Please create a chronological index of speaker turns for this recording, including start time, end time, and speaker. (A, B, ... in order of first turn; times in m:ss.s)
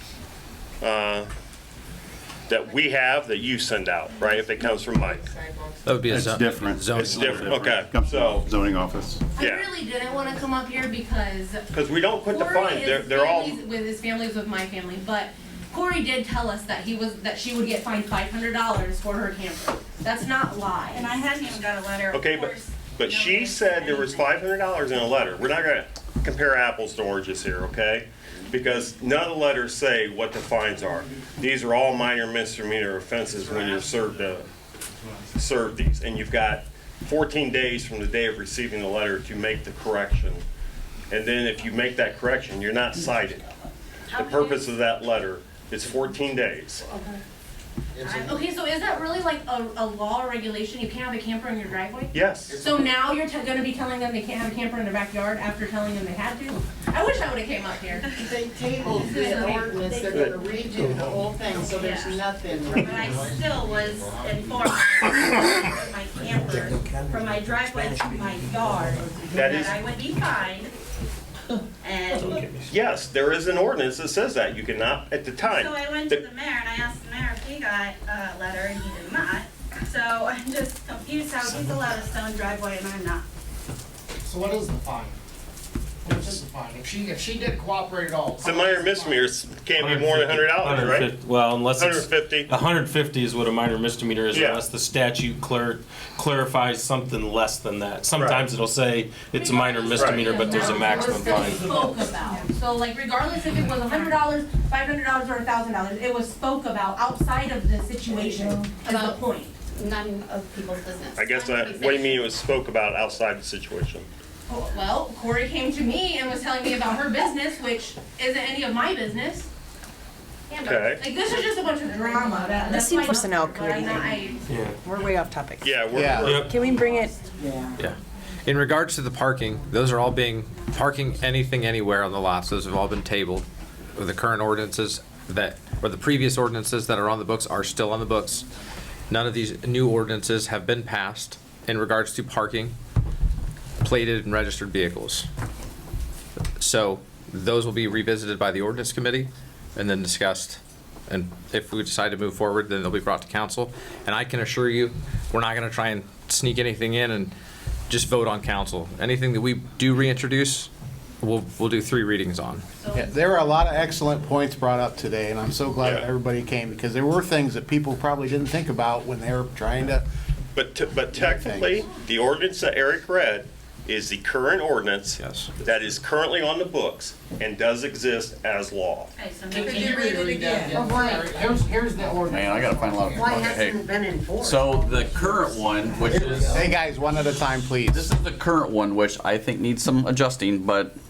0:00.8-0:01.3 A
0:02.5-0:05.3 A
0:05.8-0:07.5 B
0:06.1-0:09.2 C
0:07.1-0:08.5 A
0:09.4-0:11.6 D
0:09.4-0:09.6 A
0:11.7-0:13.6 A
0:12.3-0:21.2 D
0:20.9-0:24.4 E
0:22.1-0:34.5 A
0:35.4-0:40.4 A
0:41.1-0:43.5 A
0:44.1-0:46.8 A
0:44.2-0:44.6 E
0:48.0-0:48.4 E
0:48.2-0:58.1 D
0:52.1-0:52.5 A
0:58.2-1:02.9 F
0:59.0-1:00.0 D
1:01.7-1:02.2 E
1:02.8-1:10.7 E
1:09.3-1:09.8 A
1:11.8-1:12.4 E
1:12.1-1:12.7 G
1:12.7-1:16.2 A
1:15.4-1:23.2 E
1:24.2-1:25.2 H
1:26.0-1:29.3 H
1:28.4-1:31.1 A
1:29.8-1:41.8 G
1:31.8-1:32.5 A
1:34.3-1:34.6 A
1:38.2-1:38.5 A
1:39.5-1:49.6 D
1:39.9-1:40.3 A
1:48.9-1:49.2 I
1:49.8-1:52.3 I
1:51.2-1:54.1 A
1:54.5-1:59.5 D
2:00.5-2:04.4 D
2:00.6-2:01.0 A
2:02.7-2:04.1 J
2:04.5-2:04.8 G
2:04.8-2:05.7 J
2:05.6-2:06.5 A
2:05.9-2:06.4 K
2:06.2-2:06.5 G
2:06.5-2:07.2 J
2:07.8-2:13.4 B
2:14.0-2:18.4 B
2:19.1-2:22.7 B
2:23.8-2:25.3 B
2:26.6-2:37.3 B
2:37.9-2:40.7 B
2:41.2-2:42.6 B
2:42.9-2:50.0 K
2:45.8-2:46.1 A
2:50.6-2:59.1 A
2:51.1-2:51.8 K
2:55.2-2:55.5 B
2:59.2-3:00.0 E
2:59.5-3:03.4 H
3:00.7-3:01.1 F
3:02.3-3:03.8 L
3:03.1-3:06.7 F
3:04.4-3:06.6 L
3:06.4-3:08.1 K
3:07.9-3:10.9 L